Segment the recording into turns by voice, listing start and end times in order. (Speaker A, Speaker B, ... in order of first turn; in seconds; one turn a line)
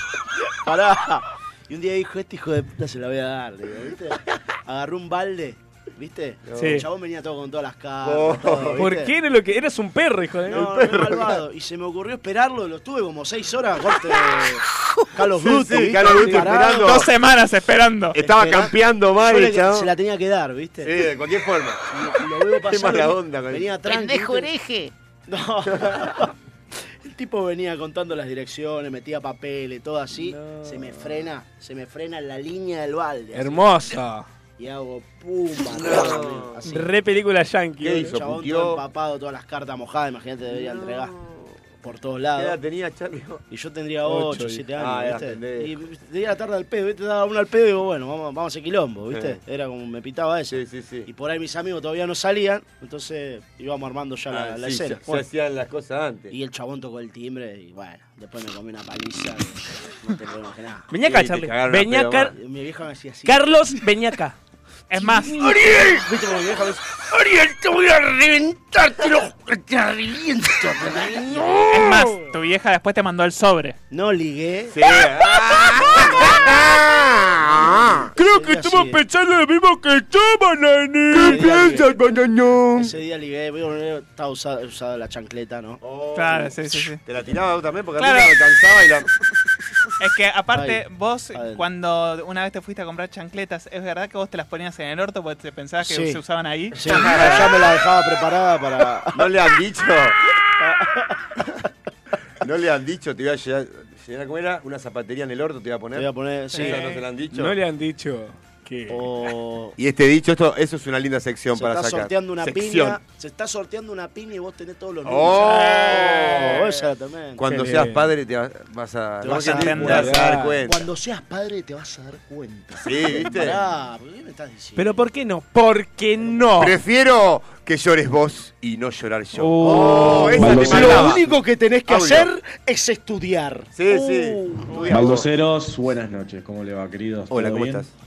Speaker A: 0.5-9.1
Speaker B: 6.5-6.8
Speaker C: 6.5-6.8
Speaker B: 8.0-8.8
Speaker C: 8.8-10.7
Speaker A: 10.5-17.1
Speaker B: 10.5-11.4
Speaker B: 15.3-17.1
Speaker D: 16.7-18.1
Speaker B: 18.1-19.9
Speaker A: 18.1-21.0
Speaker B: 20.8-21.8
Speaker A: 21.9-24.5
Speaker B: 22.6-23.7
Speaker A: 25.3-33.6
Speaker B: 25.7-26.1
Speaker C: 30.2-31.0
Speaker C: 33.3-34.3
Speaker A: 34.6-36.9
Speaker B: 35.8-36.6
Speaker C: 36.6-38.1
Speaker B: 37.8-38.8
Speaker A: 38.1-41.1
Speaker B: 40.5-41.5
Speaker A: 41.8-42.6
Speaker B: 42.4-43.4
Speaker A: 43.5-55.2
Speaker C: 44.2-44.5
Speaker B: 44.2-45.7
Speaker B: 49.1-49.4
Speaker B: 50.5-51.1
Speaker B: 54.3-56.3
Speaker A: 56.3-60.9
Speaker C: 60.9-62.3
Speaker B: 61.0-62.4
Speaker A: 62.3-63.6
Speaker C: 63.2-64.4
Speaker D: 64.9-65.4
Speaker C: 65.3-66.0
Speaker A: 65.4-71.8
Speaker D: 71.7-73.8
Speaker C: 71.8-72.2
Speaker A: 73.9-75.0
Speaker B: 74.7-78.1
Speaker A: 75.7-76.8
Speaker A: 77.3-79.0
Speaker C: 78.2-81.8
Speaker B: 81.1-82.9
Speaker A: 81.1-81.9
Speaker A: 82.7-85.8
Speaker B: 85.8-89.1
Speaker D: 86.1-87.0
Speaker D: 88.0-88.3
Speaker D: 90.0-97.2
Speaker A: 90.5-90.8
Speaker A: 91.3-91.6
Speaker A: 95.8-96.2
Speaker A: 96.7-99.2
Speaker B: 96.8-97.7
Speaker B: 99.1-100.2
Speaker A: 100.6-101.2
Speaker B: 102.4-107.5
Speaker A: 105.9-106.9
Speaker D: 106.5-107.0
Speaker C: 107.3-109.1
Speaker A: 108.9-109.7
Speaker B: 109.8-113.0
Speaker A: 111.5-117.4
Speaker B: 115.0-116.8
Speaker B: 117.4-120.8
Speaker C: 117.4-118.1
Speaker A: 119.2-124.9
Speaker D: 119.3-120.0
Speaker C: 119.8-120.6
Speaker B: 122.8-123.6
Speaker C: 124.8-126.8
Speaker B: 126.6-131.3
Speaker C: 129.3-131.2
Speaker A: 129.6-134.9
Speaker E: 130.4-131.0
Speaker B: 131.9-132.3
Speaker B: 133.7-135.3
Speaker D: 134.7-135.0
Speaker E: 134.9-137.9
Speaker B: 137.3-137.9